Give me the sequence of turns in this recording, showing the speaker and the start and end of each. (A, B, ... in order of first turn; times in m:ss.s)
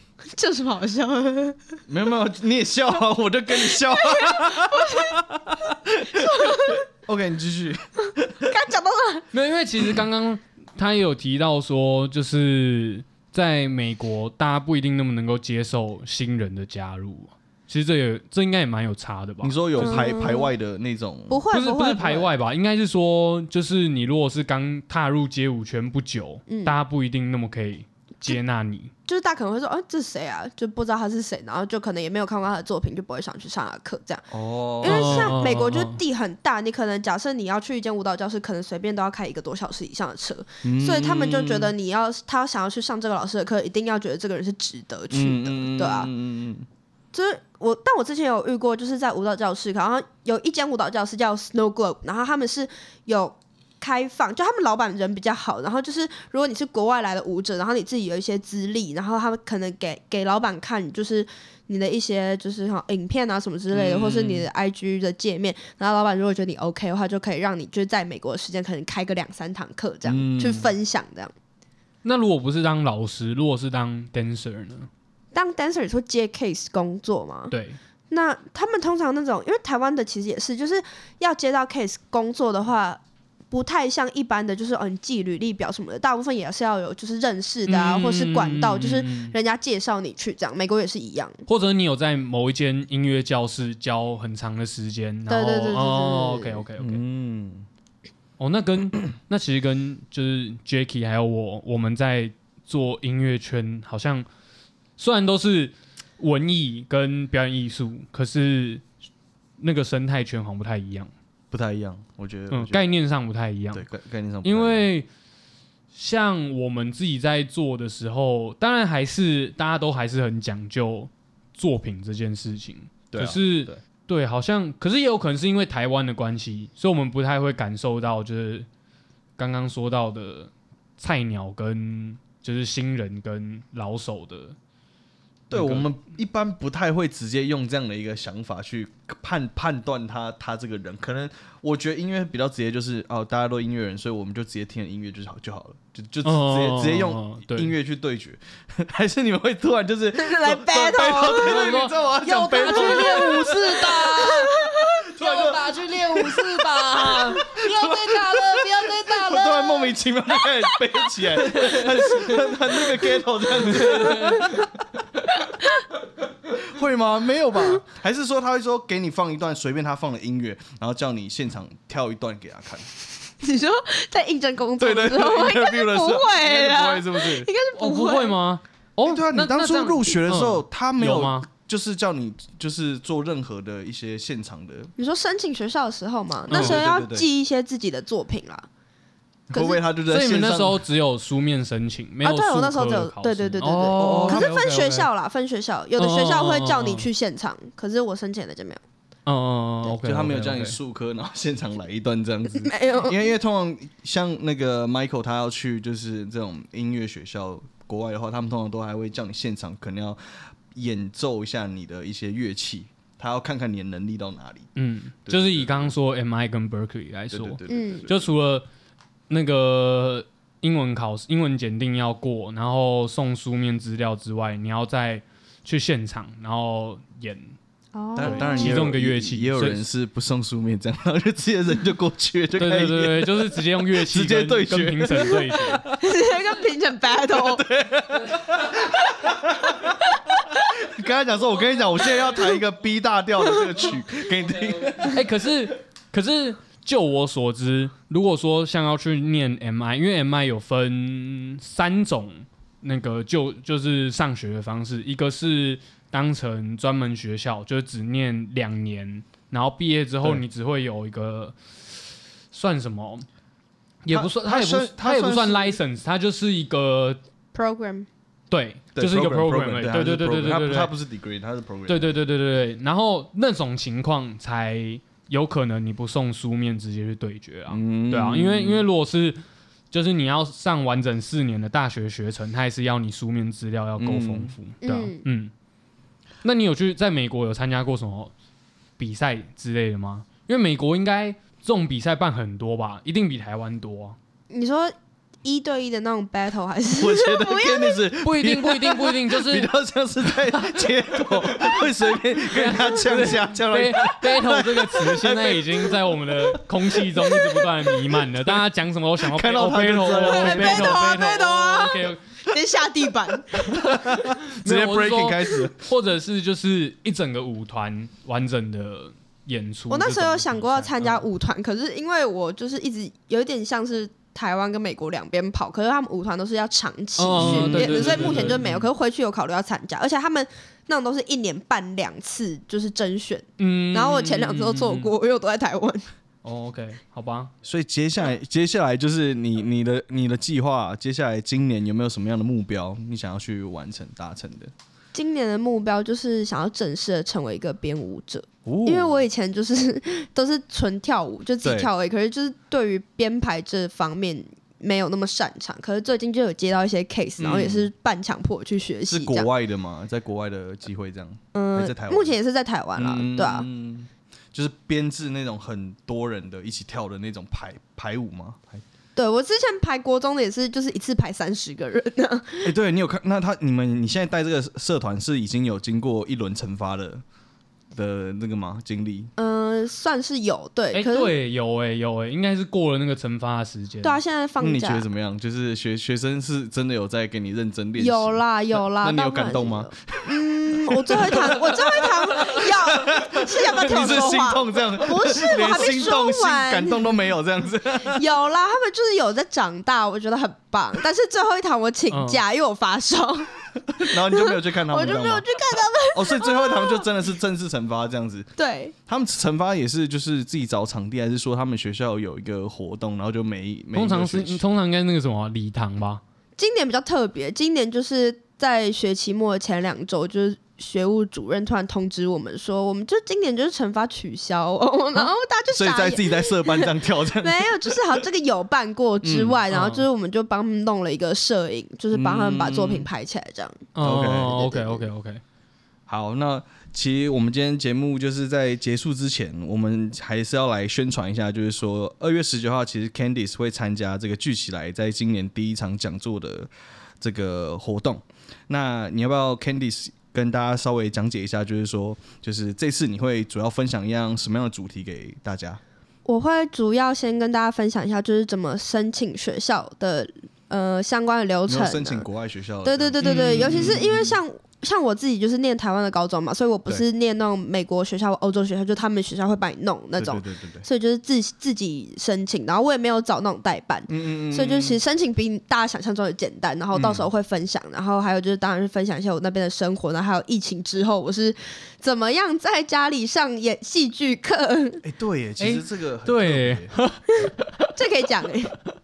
0:00.3-0:01.8 A
0:01.9-0:08.5 B
0:03.5-0:05.2 A
0:06.1-0:06.8 A
0:08.4-0:09.3 A
0:09.3-0:20.1 C
0:19.4-0:21.4 B
0:19.8-0:20.5 A
0:21.3-0:22.3 A
0:21.5-0:28.9 C
0:26.5-0:26.8 A
0:29.1-0:34.2 A
0:34.3-0:35.4 B
0:34.8-0:46.1 A
0:34.8-0:36.0 C
0:40.6-0:41.7 B
0:45.1-0:46.7 B
0:47.1-1:11.3 A
1:03.7-1:04.4 B
1:10.0-1:10.7 B
1:12.0-1:14.9 C
1:15.3-1:17.5 A
1:17.5-1:17.8 C
1:18.1-1:23.0 A
1:23.5-1:31.4 A
1:27.7-1:29.4 C
1:31.5-1:37.0 C
1:35.3-1:36.6 A
1:36.8-1:37.7 B
1:38.4-1:44.3 C
1:45.0-1:48.8 C
1:49.6-1:51.1 C
1:51.5-1:52.9 B
1:52.5-1:53.9 C
1:53.7-1:54.9 B
1:54.4-1:55.1 C
1:55.9-2:08.7 C
2:03.1-2:03.8 B
2:09.4-2:14.6 C
2:15.5-2:34.3 B
2:15.5-2:15.9 C
2:26.2-2:27.7 C
2:30.2-2:31.8 A
2:31.3-2:37.6 C
2:32.5-2:35.1 A
2:35.1-2:44.7 B
2:37.4-2:40.8 A
2:38.9-2:39.6 C
2:41.6-2:42.3 C
2:43.7-2:44.7 C
2:43.8-2:44.7 A
2:45.4-2:45.8 A
2:46.5-2:52.9 B
2:53.4-2:58.4 A
2:54.8-2:57.5 B
2:57.8-3:01.5 C
2:59.0-3:04.9 B
3:05.0-3:08.7 A
3:06.5-3:07.3 B
3:06.5-3:06.8 C
3:09.5-3:10.8 B
3:09.5-3:09.8 A
3:10.1-3:15.1 C
3:12.2-3:18.8 A
3:14.0-3:14.5 B
3:16.0-3:17.1 C
3:19.3-3:20.8 C
3:19.8-3:34.7 B
3:22.6-3:23.3 A
3:34.8-3:38.7 C
3:35.3-3:35.9 B
3:37.3-3:38.3 B
3:37.7-3:38.1 A
3:39.3-3:47.6 C
3:47.9-3:48.9 A
3:48.2-3:56.0 B
3:48.2-3:49.9 C
3:52.6-3:55.8 C
3:56.0-3:57.6 A
3:57.3-4:00.1 B
4:00.3-4:00.7 A
4:00.8-4:05.2 B
4:05.1-4:21.6 C
4:22.5-4:23.3 C
4:24.0-4:27.2 C
4:24.1-4:25.8 B
4:27.5-4:28.1 A
4:28.5-4:30.9 C
4:29.0-4:32.2 B
4:31.9-4:39.4 C
4:37.7-4:38.9 B
4:39.9-4:45.5 C
4:44.0-4:44.5 B
4:44.8-4:45.2 A
4:46.4-4:48.3 C
4:49.0-4:54.2 C
4:54.5-4:58.0 A
4:57.0-5:07.7 B
4:58.2-4:59.7 C
5:00.4-5:12.2 C
5:09.2-5:11.1 B
5:10.2-5:13.9 A
5:13.7-5:15.8 B
5:13.8-5:21.2 C
5:19.9-5:36.0 A
5:27.2-5:28.8 C
5:27.3-5:28.8 B
5:33.6-5:35.1 C
5:36.4-5:37.5 C
5:37.6-5:44.7 B
5:45.1-5:59.5 A
5:48.7-5:49.2 B
5:51.6-5:51.9 B
5:57.4-5:57.9 B
5:59.1-6:02.4 B
6:01.5-6:03.7 A
6:03.0-6:08.8 B
6:09.2-6:12.7 A
6:12.6-6:17.2 B
6:17.9-6:19.3 B
6:19.4-6:21.3 A
6:20.9-6:24.2 C
6:24.0-6:25.0 A
6:24.6-6:38.2 B
6:28.0-6:37.0 A
6:38.1-6:43.5 A
6:42.1-6:42.4 C
6:44.0-6:45.4 B
6:44.0-6:47.0 A
6:46.1-6:48.5 B
6:48.6-6:48.9 A
6:49.1-6:54.6 B
6:53.9-6:56.2 C
6:56.6-7:13.9 A
7:05.7-7:08.2 B
7:09.2-7:09.6 B
7:09.7-7:10.1 C
7:12.1-7:13.1 B
7:14.0-7:15.4 C
7:14.0-7:14.6 B
7:14.5-7:15.1 A
7:16.1-7:35.8 B
7:36.3-7:42.3 A
7:41.7-7:44.4 B
7:42.8-8:05.0 A
7:43.2-7:44.0 C
7:50.2-7:50.8 B
7:54.1-7:55.0 B
7:56.9-7:57.3 B
8:05.0-8:06.9 B
8:05.6-8:07.9 C
8:07.3-8:08.7 A